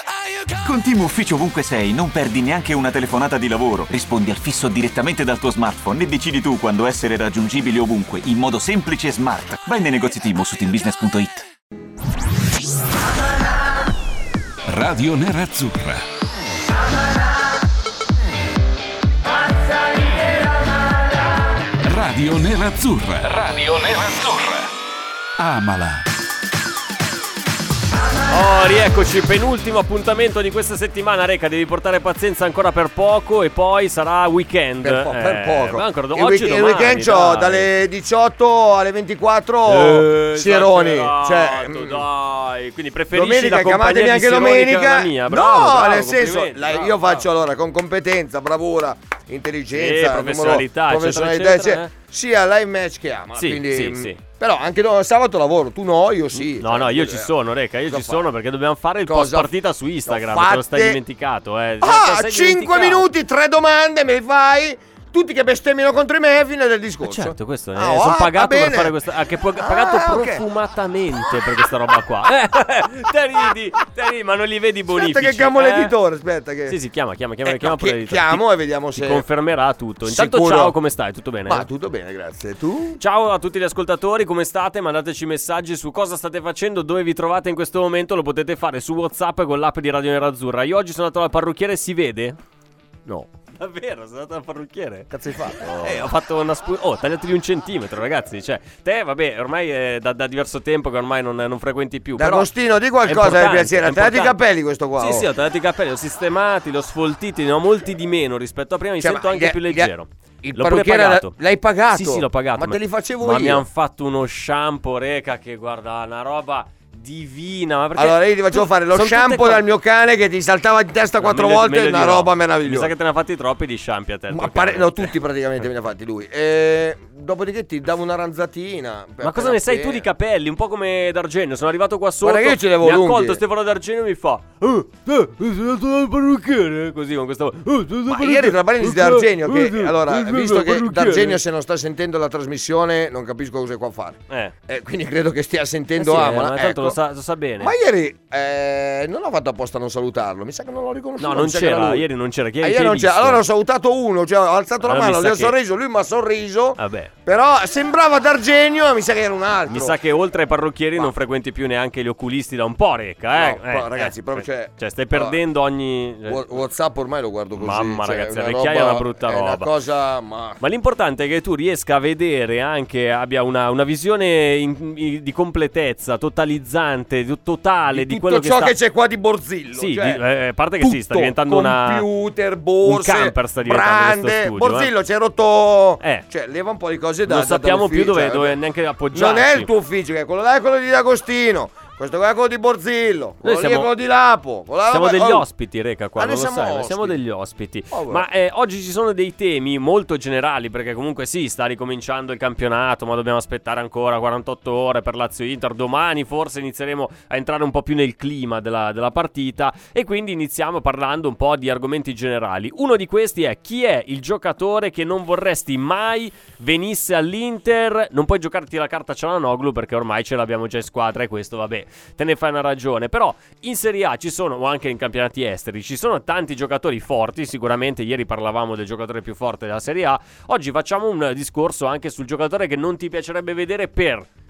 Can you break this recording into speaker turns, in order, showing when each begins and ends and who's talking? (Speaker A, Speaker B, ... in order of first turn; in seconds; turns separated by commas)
Speaker A: 0.6-11.4, Speaker B: 14.7-16.0, Speaker B: 21.8-24.7, Speaker B: 25.4-26.0, Speaker C: 28.3-37.7, Speaker D: 34.8-42.0, Speaker C: 39.6-47.0, Speaker D: 43.1-58.3, Speaker C: 49.7-51.9, Speaker C: 53.4-54.2, Speaker C: 56.3-63.0, Speaker D: 59.0-59.5, Speaker D: 60.0-61.0, Speaker D: 61.8-69.0, Speaker C: 67.0-75.9, Speaker D: 69.5-70.4, Speaker D: 74.9-76.8, Speaker C: 76.7-81.7, Speaker D: 77.4-79.2, Speaker D: 80.0-80.8, Speaker D: 81.5-83.0, Speaker C: 83.0-92.4, Speaker C: 93.6-95.1, Speaker D: 95.1-96.1, Speaker C: 95.8-102.5, Speaker D: 102.2-105.3, Speaker C: 103.0-104.4, Speaker C: 105.0-111.3, Speaker D: 109.0-109.9, Speaker D: 110.4-113.6, Speaker C: 111.9-119.6, Speaker D: 117.9-122.9, Speaker C: 121.2-125.1, Speaker D: 124.3-130.1, Speaker C: 129.2-141.4, Speaker D: 132.2-133.4, Speaker D: 138.1-146.9, Speaker C: 146.0-147.7, Speaker D: 147.6-152.1, Speaker C: 151.2-153.4, Speaker D: 152.6-160.0, Speaker C: 154.8-155.5, Speaker C: 156.8-157.1, Speaker C: 159.7-166.4, Speaker D: 163.3-165.4, Speaker D: 166.2-170.6, Speaker C: 167.6-169.7, Speaker C: 170.6-178.8, Speaker D: 177.9-180.2, Speaker C: 179.7-182.1, Speaker D: 180.8-188.6, Speaker C: 182.8-184.9, Speaker C: 187.2-189.7, Speaker D: 189.1-195.4, Speaker C: 193.4-193.9, Speaker C: 194.9-234.3, Speaker D: 196.2-197.2, Speaker D: 197.9-198.2